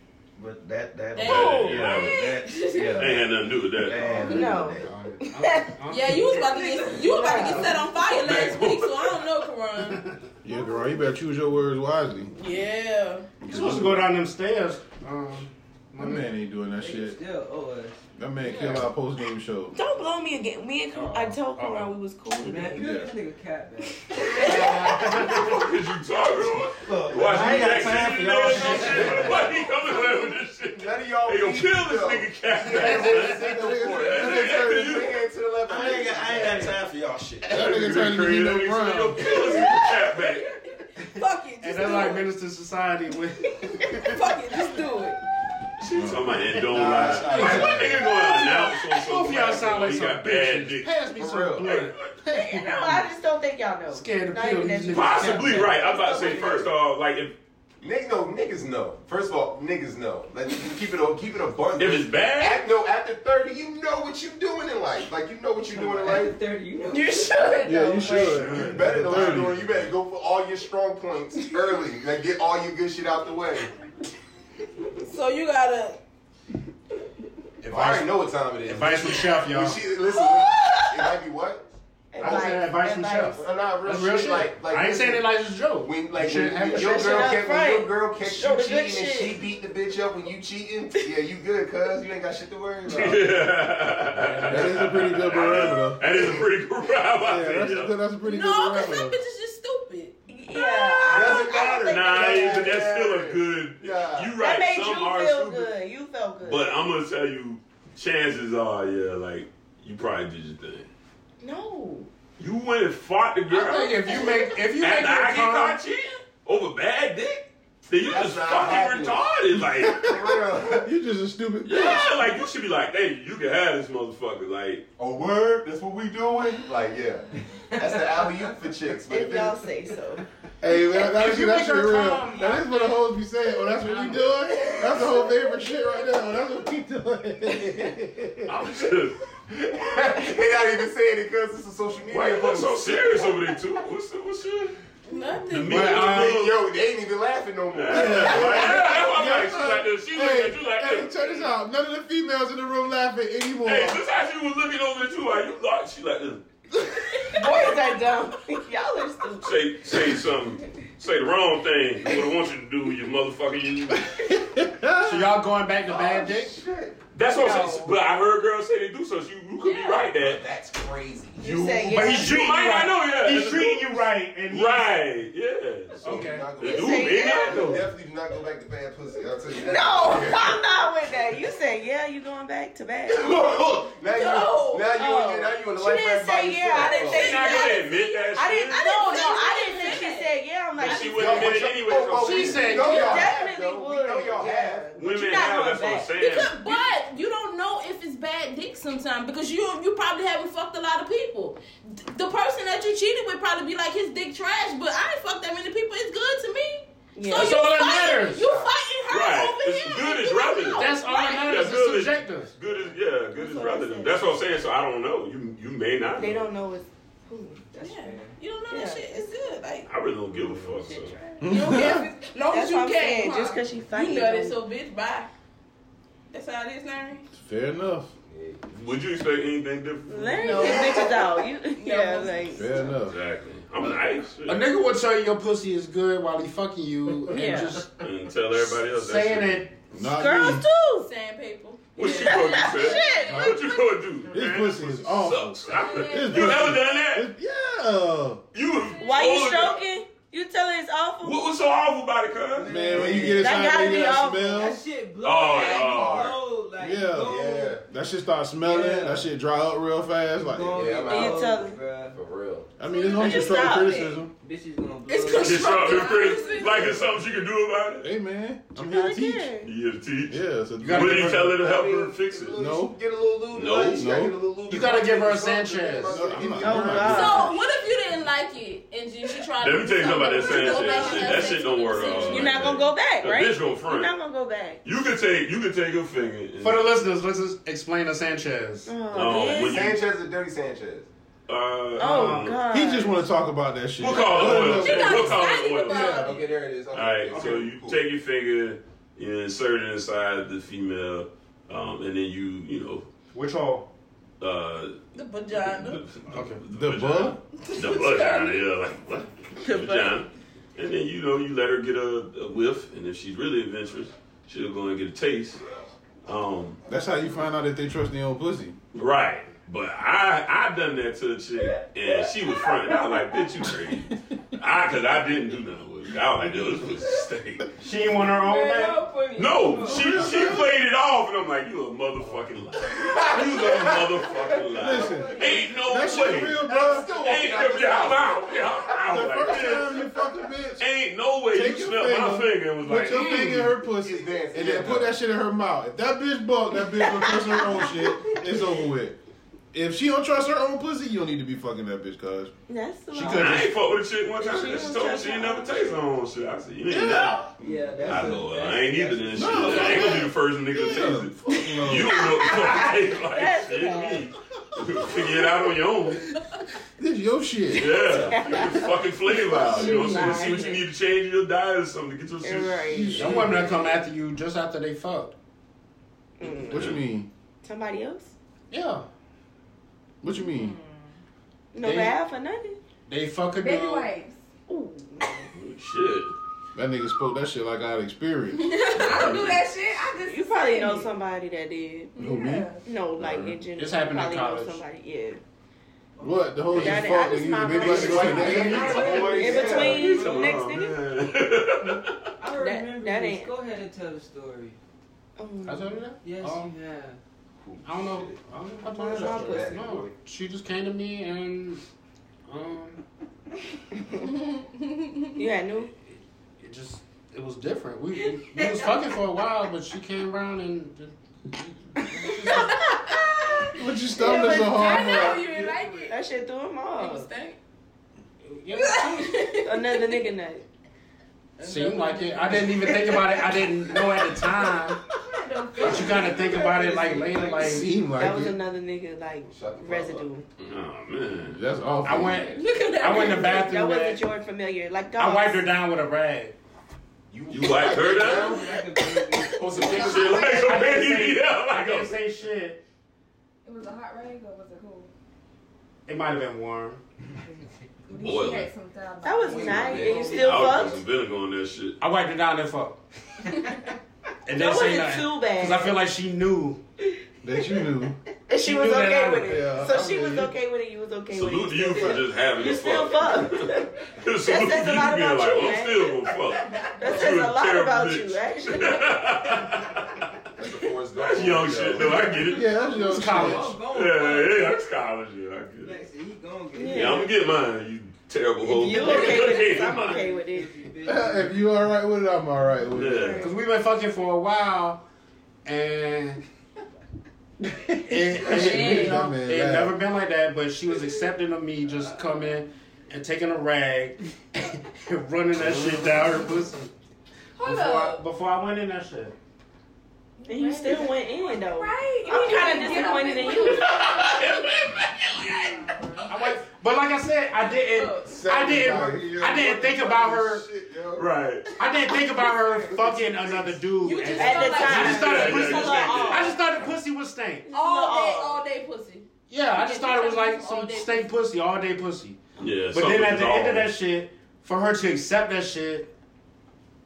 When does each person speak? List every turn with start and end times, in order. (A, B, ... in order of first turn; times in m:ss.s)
0:00.4-0:05.1 A
0:01.1-0:03.2 B
0:01.2-0:02.3 C
0:01.3-0:01.8 D
0:02.9-0:04.2 C
0:04.0-0:04.5 B
0:04.2-0:05.7 D
0:04.3-0:06.9 E
0:05.9-0:10.0 B
0:06.8-0:07.8 D
0:08.1-0:09.2 C
0:10.4-0:12.3 F
0:12.3-0:13.3 B
0:13.4-0:14.1 F
0:13.4-0:16.3 E
0:16.0-0:17.2 F
0:16.8-0:18.0 G
0:18.2-0:19.8 F
0:18.4-0:18.9 E
0:19.7-0:22.9 D
0:20.9-0:21.9 E
0:22.4-0:24.6 G
0:22.8-0:23.1 F
0:24.1-0:24.9 D
0:24.2-0:25.6 E
0:24.9-0:35.2 C
0:26.8-0:29.5 A
0:30.7-0:36.8 H
0:32.7-0:33.4 E
0:33.2-0:35.1 F
0:35.7-0:38.1 A
0:37.4-0:39.6 F
0:37.5-0:40.5 C
0:39.5-0:40.5 B
0:41.1-0:42.3 B
0:41.2-0:44.2 E
0:43.9-0:45.2 B
0:45.8-0:52.1 C
0:45.9-0:46.4 F
0:46.7-0:48.0 H
0:46.8-0:53.1 E
0:51.1-0:51.9 H
0:52.3-0:56.7 D
0:53.9-0:55.8 E
0:54.9-0:57.3 C
0:57.8-1:06.4 H
1:01.8-1:02.6 C
1:05.7-1:07.3 G
1:06.9-1:08.4 D
1:07.4-1:08.2 I
1:07.6-1:09.7 F
1:08.2-1:09.7 C
1:08.5-1:13.7 H
1:15.0-1:16.0 B
1:17.6-1:19.8 E
1:17.7-1:21.6 H
1:20.3-1:20.8 D
1:22.1-1:23.5 D
1:22.2-1:27.4 E
1:23.4-1:25.3 H
1:25.8-1:33.2 H
1:26.7-1:29.4 D
1:32.8-1:37.9 C
1:34.1-1:35.0 E
1:34.5-1:36.0 F
1:37.2-1:39.2 F
1:38.2-1:41.7 B
1:40.3-1:42.8 D
1:41.1-1:44.4 H
1:41.7-1:45.7 C
1:44.4-1:46.7 D
1:46.4-1:50.9 C
1:51.4-1:52.1 D
1:52.4-2:00.2 C
1:53.5-1:55.8 E
1:58.0-2:00.9 H
2:00.7-2:02.1 F
2:01.6-2:04.8 C
2:05.0-2:09.6 H
2:09.1-2:10.2 D
2:10.6-2:18.5 F
2:10.7-2:13.0 E
2:13.6-2:15.1 E
2:18.5-2:19.2 C
2:19.5-2:23.3 H
2:22.1-2:24.8 C
2:25.0-2:26.0 B
2:25.5-2:26.6 C
2:25.6-2:26.4 E
2:26.0-2:29.0 H
2:27.7-2:31.5 C
2:27.9-2:34.0 F
2:33.6-2:36.4 C
2:37.1-2:39.7 D
2:39.4-2:44.1 C
2:44.0-2:45.3 F
2:45.0-2:46.6 E
2:45.8-2:47.0 H
2:47.1-2:50.4 C
2:47.4-2:48.0 D
2:49.6-2:50.0 B
2:50.1-2:51.6 H
2:51.4-2:52.7 D
2:51.4-2:57.8 C
2:51.9-2:54.9 E
2:56.0-2:56.6 E
2:56.0-3:00.6 H
2:56.6-2:57.7 D
2:57.5-2:57.8 E
2:59.5-3:03.3 D
3:03.1-3:07.3 H
3:04.0-3:05.0 B
3:04.9-3:11.3 D
3:06.7-3:11.2 B
3:07.1-3:09.0 C
3:07.2-3:07.6 E
3:10.8-3:12.8 C
3:11.0-3:14.9 H
3:11.2-3:13.3 E
3:12.7-3:13.4 B
3:12.8-3:16.1 D
3:15.0-3:16.8 C
3:16.1-3:31.5 B
3:27.1-3:27.6 D
3:27.3-3:28.5 E
3:28.4-3:28.7 G
3:29.1-3:36.4 C
3:30.7-3:32.5 E
3:32.6-3:33.0 G
3:33.3-3:34.4 D
3:36.2-3:37.6 D
3:37.7-3:38.4 G
3:37.8-3:39.9 B
3:38.7-3:39.2 D
3:39.9-3:41.2 C
3:40.3-3:40.9 G
3:40.9-3:44.6 D
3:41.4-3:42.1 F
3:41.4-3:45.3 B
3:46.3-3:47.2 B
3:47.3-3:48.1 F
3:48.3-3:48.6 G
3:48.7-3:50.9 C
3:50.1-3:52.9 D
3:50.3-3:52.8 B
3:52.5-3:53.2 F
3:53.0-3:54.6 C
3:54.4-3:58.0 E
3:57.3-3:57.8 B
3:57.9-3:59.7 C
3:58.8-3:59.8 E
3:59.9-4:00.6 F
4:00.0-4:01.1 D
4:00.9-4:03.7 B
4:02.0-4:07.3 C
4:02.0-4:03.5 D
4:03.3-4:03.6 F
4:04.3-4:08.4 F
4:05.7-4:06.8 B
4:08.5-4:09.8 C
4:09.0-4:11.4 D
4:11.2-4:13.2 C
4:12.5-4:17.8 G
4:12.7-4:14.8 F
4:13.2-4:14.7 D
4:15.2-4:16.3 C
4:15.5-4:16.4 H
4:16.8-4:20.9 F
4:17.2-4:17.8 H
4:18.6-4:19.3 G
4:20.4-4:22.2 G
4:20.7-4:21.6 H
4:21.0-4:21.8 D
4:22.1-4:22.7 H
4:22.8-4:24.3 F
4:22.8-4:24.0 B
4:22.9-4:24.2 D
4:24.4-4:26.1 G
4:25.1-4:27.0 B
4:25.4-4:28.1 C
4:28.0-4:29.5 F
4:28.8-4:29.7 D
4:29.6-4:32.6 C
4:30.3-4:31.6 F
4:30.8-4:31.6 E
4:31.6-4:37.2 H
4:32.6-4:33.0 F
4:33.5-4:34.0 C
4:34.0-4:34.3 F
4:34.7-4:36.3 E
4:36.1-4:37.5 F
4:36.6-4:37.6 D
4:37.0-4:42.8 B
4:39.6-4:44.1 C
4:41.2-4:41.5 I
4:42.2-4:44.8 D
4:44.8-4:46.9 C
4:46.6-4:48.9 E
4:48.8-4:49.8 D
4:49.1-4:50.0 C
4:49.6-4:51.1 H
4:51.5-4:52.6 C
4:52.0-4:53.2 D
4:52.0-4:52.6 E
4:52.7-4:56.0 F
4:54.0-4:56.4 C
4:54.2-4:56.5 B
4:56.2-4:58.0 H
4:56.9-5:03.1 C
5:03.3-5:03.9 E
5:04.4-5:05.0 C
5:05.1-5:06.1 B
5:05.7-5:15.6 C
5:06.3-5:06.6 E
5:06.7-5:07.4 F
5:07.7-5:08.7 B
5:09.6-5:10.1 D
5:16.2-5:16.8 C
5:16.8-5:18.8 F
5:18.9-5:27.7 C
5:27.8-5:29.2 E
5:28.5-5:29.6 B
5:29.3-5:30.3 G
5:29.4-5:40.1 C
5:29.8-5:30.8 F
5:33.0-5:34.6 H
5:34.7-5:37.1 F
5:34.8-5:35.6 G
5:36.6-5:38.8 H
5:36.7-5:37.0 E
5:38.9-5:40.8 F
5:40.8-5:43.7 C
5:41.5-5:49.2 F
5:43.9-5:45.2 H
5:47.2-5:47.6 D
5:49.7-5:52.5 F
5:52.7-5:53.6 D
5:53.1-5:53.7 F
5:53.3-5:57.4 C
5:54.4-5:56.0 D
5:57.6-6:00.2 G
5:58.0-6:06.3 C
5:59.3-6:02.4 F
6:01.5-6:04.3 D
6:07.0-6:08.4 F
6:07.7-6:13.0 C
6:08.3-6:10.8 D
6:12.4-6:13.6 D
6:12.9-6:13.9 F
6:13.1-6:15.3 E
6:16.4-6:16.9 D
6:16.4-6:17.3 F
6:16.7-6:17.0 C
6:17.6-6:18.3 D
6:18.7-6:19.0 E
6:20.2-6:20.8 F
6:20.5-6:21.0 I
6:21.7-6:22.8 D
6:21.8-6:22.2 E
6:23.1-6:24.1 E
6:23.6-6:24.4 I
6:24.7-6:25.5 D
6:25.5-6:26.3 C
6:26.7-6:29.6 F
6:28.6-6:29.2 B
6:28.8-6:31.1 I
6:30.2-6:32.2 D
6:32.2-6:32.7 F
6:32.2-6:32.8 I
6:32.8-6:35.4 D
6:33.2-6:33.6 F
6:33.8-6:34.8 E
6:36.2-6:39.9 F
6:36.7-6:41.0 D
6:36.7-6:39.7 E
6:38.0-6:40.2 H
6:38.6-6:39.7 I
6:38.9-6:40.5 G
6:39.8-6:42.2 C
6:42.4-6:44.8 G
6:42.8-6:43.5 D
6:45.4-6:46.0 D
6:45.6-6:46.7 E
6:46.2-6:47.2 G
6:47.6-6:48.4 H
6:47.8-6:51.8 E
6:48.8-6:49.8 D
6:49.1-6:50.1 H
6:52.5-6:53.0 E
6:54.0-6:54.3 D
6:54.3-6:55.3 B
6:55.4-6:55.9 D
6:56.6-7:02.9 E
7:02.4-7:06.1 B
7:03.7-7:05.4 F
7:04.2-7:05.3 D
7:05.3-7:06.1 G
7:06.1-7:07.3 D
7:07.0-7:07.6 B
7:08.4-7:09.4 E
7:08.7-7:10.2 B
7:09.6-7:10.6 D
7:11.6-7:12.8 G
7:11.6-7:15.0 E
7:12.3-7:13.4 B
7:15.2-7:16.6 I
7:15.8-7:17.9 E
7:15.8-7:16.4 B
7:16.7-7:17.4 G
7:17.6-7:18.6 F
7:18.0-7:20.4 D
7:19.5-7:20.3 H
7:20.6-7:21.6 C
7:21.5-7:22.6 F
7:22.0-7:24.2 E
7:22.5-7:23.7 B
7:23.1-7:25.6 D
7:25.2-7:26.5 E
7:27.3-7:28.9 H
7:27.5-7:28.7 C
7:27.9-7:30.0 G
7:29.6-7:32.8 E
7:29.6-7:30.0 H
7:29.8-7:32.2 C
7:33.6-7:35.1 I
7:36.1-7:37.0 E
7:38.1-7:40.2 I
7:38.2-7:38.7 C
7:39.2-7:41.0 D
7:39.4-7:40.9 G
7:40.2-7:42.0 C
7:42.0-7:43.0 E
7:44.4-7:46.8 E
7:44.5-7:46.0 D
7:47.4-7:48.2 F
7:48.5-7:56.3 D
7:48.6-7:49.6 E
7:49.4-7:50.5 F
7:51.3-8:00.1 C
7:56.8-7:59.1 D
8:00.6-8:02.4 H
8:01.1-8:02.9 C
8:02.4-8:03.8 F
8:02.7-8:04.8 G
8:02.8-8:03.8 E
8:03.9-8:06.0 C
8:05.8-8:07.3 G
8:06.7-8:07.3 D
8:06.9-8:10.2 C
8:08.6-8:10.7 D
8:08.7-8:11.8 G
8:11.0-8:13.4 F
8:12.9-8:13.5 C
8:13.0-8:13.5 D
8:13.4-8:15.0 E
8:15.6-8:16.4 E
8:17.9-8:26.9 E
8:17.9-8:20.0 F
8:18.5-8:19.3 B
8:27.6-8:28.1 I
8:27.6-8:29.3 E
8:27.7-8:28.2 B
8:30.4-8:34.4 I
8:30.5-8:34.2 D
8:32.4-8:33.7 B
8:33.6-8:35.9 C
8:35.6-8:36.2 I
8:36.2-8:40.6 E
8:37.7-8:38.3 B
8:38.3-8:39.3 F
8:38.6-8:41.3 H
8:41.2-8:41.7 C
8:41.8-8:47.7 E
8:42.4-8:42.9 D
8:42.9-8:43.8 H
8:44.0-8:46.6 B
8:44.4-8:46.6 D
8:44.9-8:46.5 C
8:47.6-8:48.6 D
8:47.7-8:51.3 B
8:49.5-8:56.1 E
8:52.6-8:53.9 C